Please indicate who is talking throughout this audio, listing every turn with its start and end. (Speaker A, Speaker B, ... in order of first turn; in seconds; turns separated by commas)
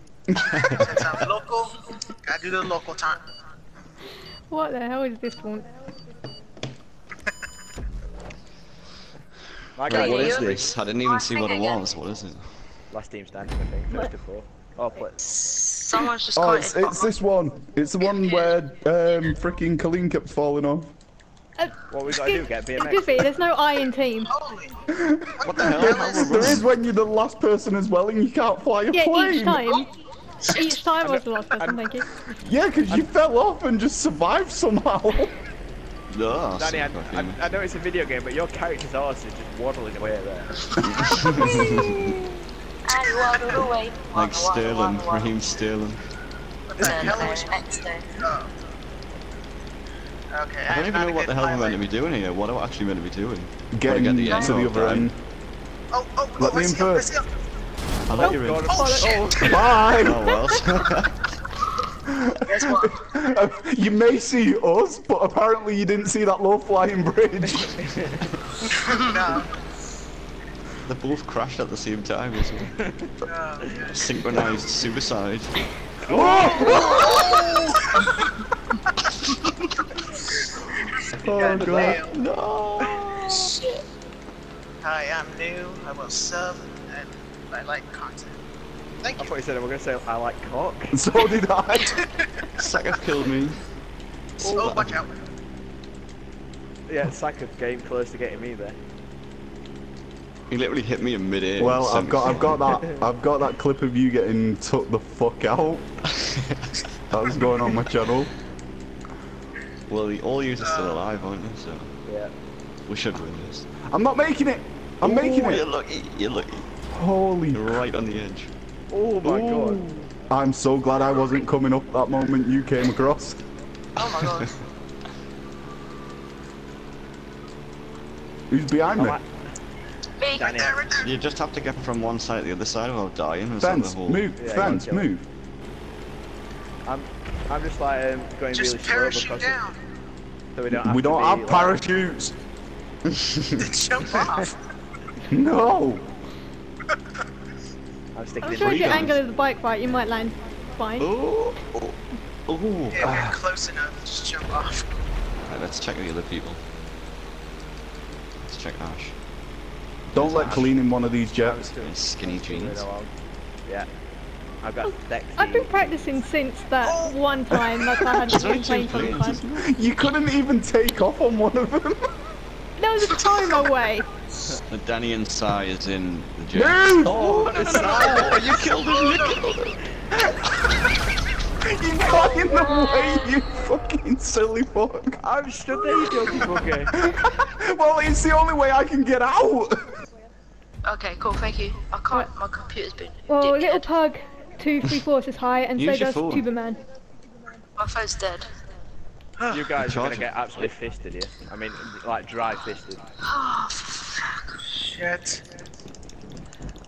Speaker A: 0.3-0.9, Speaker B: 0.5-1.0, Speaker C: 0.6-3.2, Speaker D: 4.5-5.7, Speaker E: 9.8-10.6, Speaker B: 9.8-12.4, Speaker F: 9.9-11.9, Speaker E: 12.9-15.2, Speaker F: 15.3-17.2, Speaker A: 16.3-20.9, Speaker D: 21.6-24.3, Speaker E: 21.9-23.3, Speaker C: 24.3-24.8, Speaker A: 24.9-29.7, Speaker C: 25.4-26.6, Speaker B: 25.4-26.7, Speaker D: 28.9-29.9, Speaker F: 30.4-30.8, Speaker D: 30.5-32.3, Speaker E: 31.0-31.9, Speaker A: 32.4-35.3, Speaker B: 36.1-37.4, Speaker E: 36.6-40.6, Speaker B: 40.8-42.0, Speaker C: 41.1-41.4, Speaker F: 41.4-42.2, Speaker F: 42.8-45.3, Speaker C: 43.3-43.6, Speaker B: 44.1-46.0, Speaker C: 46.7-48.5, Speaker F: 46.8-48.1, Speaker B: 46.8-47.3, Speaker C: 50.3-51.8, Speaker B: 50.7-55.1, Speaker A: 53.7-55.2, Speaker F: 54.3-54.6, Speaker C: 55.9-57.3, Speaker A: 56.4-57.1, Speaker B: 58.1-58.9, Speaker E: 58.2-59.6, Speaker C: 58.7-59.6, Speaker D: 58.7-59.2, Speaker A: 59.3-60.3, Speaker B: 60.0-61.2, Speaker D: 60.2-60.6, Speaker A: 62.1-67.9, Speaker F: 62.5-63.0, Speaker E: 67.8-68.2, Speaker C: 68.8-69.5, Speaker B: 70.9-72.7, Speaker C: 73.2-74.0, Speaker B: 73.9-75.6, Speaker E: 76.0-76.9, Speaker A: 76.1-76.8, Speaker B: 76.5-77.7, Speaker C: 76.9-78.1, Speaker A: 81.2-82.0, Speaker C: 81.2-82.2, Speaker B: 81.4-83.5, Speaker F: 83.3-83.8, Speaker C: 84.8-88.3, Speaker C: 89.0-89.3, Speaker E: 89.2-90.9, Speaker A: 90.9-92.0, Speaker B: 92.5-93.6, Speaker B: 94.4-95.0, Speaker C: 94.4-95.1, Speaker E: 96.9-98.8, Speaker B: 100.5-102.8, Speaker A: 101.6-105.9, Speaker B: 106.2-106.8, Speaker A: 107.1-108.3, Speaker B: 109.9-111.9, Speaker C: 110.6-111.1, Speaker E: 112.0-112.3, Speaker B: 112.9-113.7, Speaker A: 113.9-115.7, Speaker B: 115.0-116.7, Speaker A: 116.9-117.8, Speaker B: 117.5-118.5, Speaker E: 118.9-119.8, Speaker B: 119.2-120.1, Speaker A: 120.3-123.4, Speaker F: 124.0-124.5, Speaker B: 124.0-124.5, Speaker A: 128.5-129.2, Speaker E: 128.9-129.3, Speaker F: 130.2-130.5, Speaker E: 130.3-130.8, Speaker C: 130.3-131.1, Speaker B: 131.0-134.8, Speaker A: 133.6-135.2, Speaker E: 134.4-135.1, Speaker E: 136.8-139.6, Speaker C: 138.5-139.8, Speaker E: 140.6-141.8, Speaker A: 140.7-142.3, Speaker C: 143.6-144.6, Speaker A: 145.3-146.1, Speaker E: 148.1-149.1, Speaker D: 148.4-151.1, Speaker B: 148.5-149.2, Speaker B: 151.0-153.2, Speaker C: 152.9-154.9, Speaker A: 153.0-153.3, Speaker B: 155.5-156.6, Speaker B: 158.4-159.1, Speaker B: 160.1-160.8, Speaker A: 160.1-161.7, Speaker E: 161.4-163.1, Speaker B: 161.8-162.8, Speaker E: 164.6-166.2, Speaker D: 165.3-169.4, Speaker C: 166.8-167.2, Speaker B: 168.1-169.6, Speaker A: 169.6-172.1, Speaker D: 172.8-174.1, Speaker B: 174.7-179.8, Speaker A: 176.5-177.9, Speaker E: 177.4-178.5, Speaker C: 177.5-179.4, Speaker A: 181.6-185.2, Speaker E: 185.2-186.9, Speaker A: 186.9-189.9, Speaker F: 190.8-193.9, Speaker D: 193.3-196.8, Speaker B: 195.8-196.5, Speaker F: 197.8-198.5, Speaker E: 199.5-203.0, Speaker B: 199.8-200.7, Speaker F: 203.3-204.5, Speaker C: 204.7-205.4